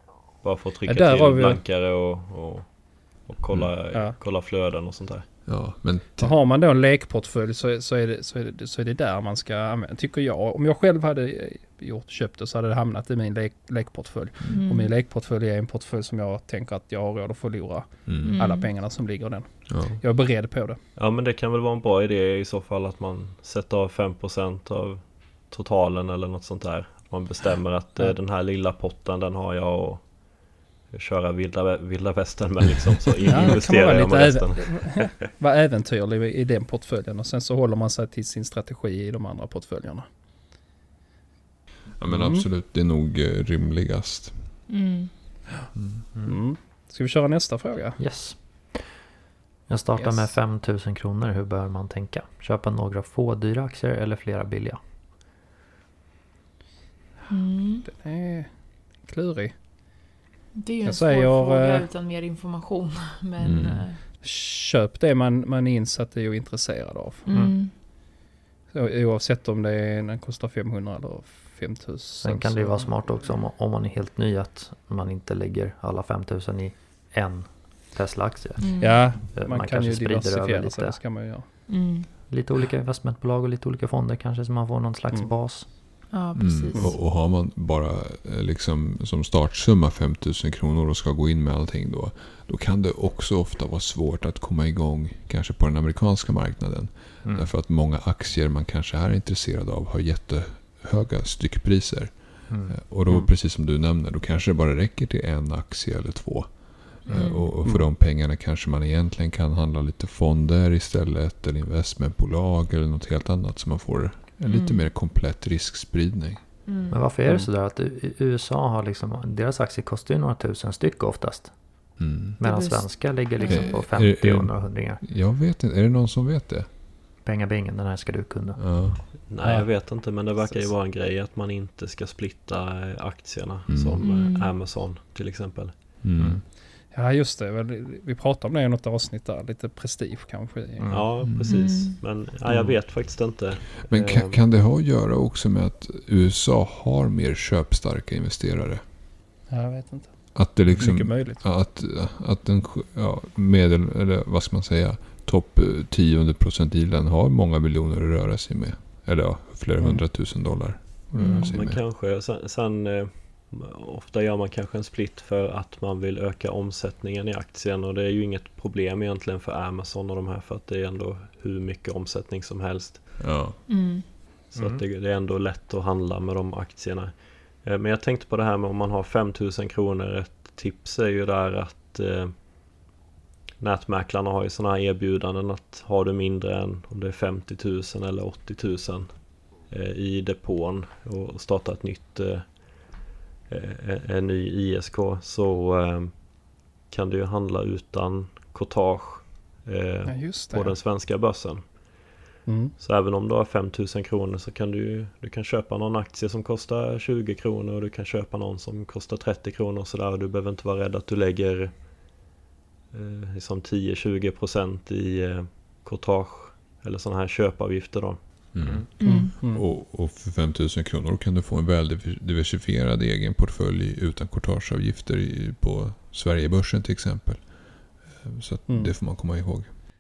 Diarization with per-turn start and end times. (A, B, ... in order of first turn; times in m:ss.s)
0:00.4-0:05.2 A
0:00.8-0:01.6 B
0:05.4-0:06.4 C
0:06.2-0:20.8 B
0:14.5-0:14.9 D
0:18.0-0:18.4 C
0:18.2-0:18.7 D
0:19.7-0:20.0 C
0:21.0-0:35.3 A
0:33.3-0:40.0 B
0:42.0-0:44.7 C
0:42.1-0:42.5 B
0:44.7-0:45.1 D
0:45.6-0:48.1 B
0:45.7-0:46.1 C
0:48.0-0:48.9 E
0:49.7-0:54.8 E
0:50.0-0:50.3 B
0:57.3-0:57.9 D
0:57.8-0:59.6 B
1:00.6-1:04.0 D
1:00.8-1:01.9 B
1:03.4-1:03.9 C
1:04.2-1:07.2 B
1:07.2-1:07.7 D
1:07.3-1:07.6 E
1:08.7-1:12.8 B
1:12.2-1:21.7 E
1:18.6-1:19.0 D
1:18.8-1:21.5 B
1:21.7-1:22.1 D
1:22.3-1:25.7 E
1:25.1-1:25.7 B
1:26.1-1:26.9 D
1:26.3-1:56.4 C
1:37.2-1:37.5 E
1:42.5-1:42.7 E
1:47.0-1:47.6 D
1:47.6-1:47.9 B
1:54.4-1:54.9 D
1:56.7-1:57.0 D
1:56.9-2:05.0 E
2:02.0-2:02.4 C
2:02.4-2:03.8 D
2:03.4-2:06.7 C
2:07.2-2:08.6 E
2:08.6-2:09.1 C
2:09.3-2:15.8 A
2:09.4-2:09.7 B
2:13.7-2:14.1 C
2:14.0-2:14.5 D
2:16.0-2:16.4 C
2:16.9-2:20.9 B
2:20.8-2:21.0 E
2:20.9-2:24.4 A
2:21.2-2:21.6 C
2:21.4-2:22.0 D
2:22.5-2:22.9 C
2:23.8-2:28.8 C
2:29.5-2:31.4 B
2:30.3-2:41.8 C
2:39.8-2:40.1 B
2:41.2-2:41.5 D
2:41.3-2:53.2 A
2:53.2-2:53.6 C
2:53.7-2:54.0 D
2:54.5-3:02.4 A
2:54.5-2:54.8 E
3:03.6-3:21.9 A
3:20.0-3:20.8 B
3:22.4-3:22.7 B
3:22.8-3:32.1 A
3:32.9-3:38.6 A
3:38.5-3:49.7 C
3:39.0-3:39.6 B
3:39.0-3:39.3 D
3:48.7-3:49.0 B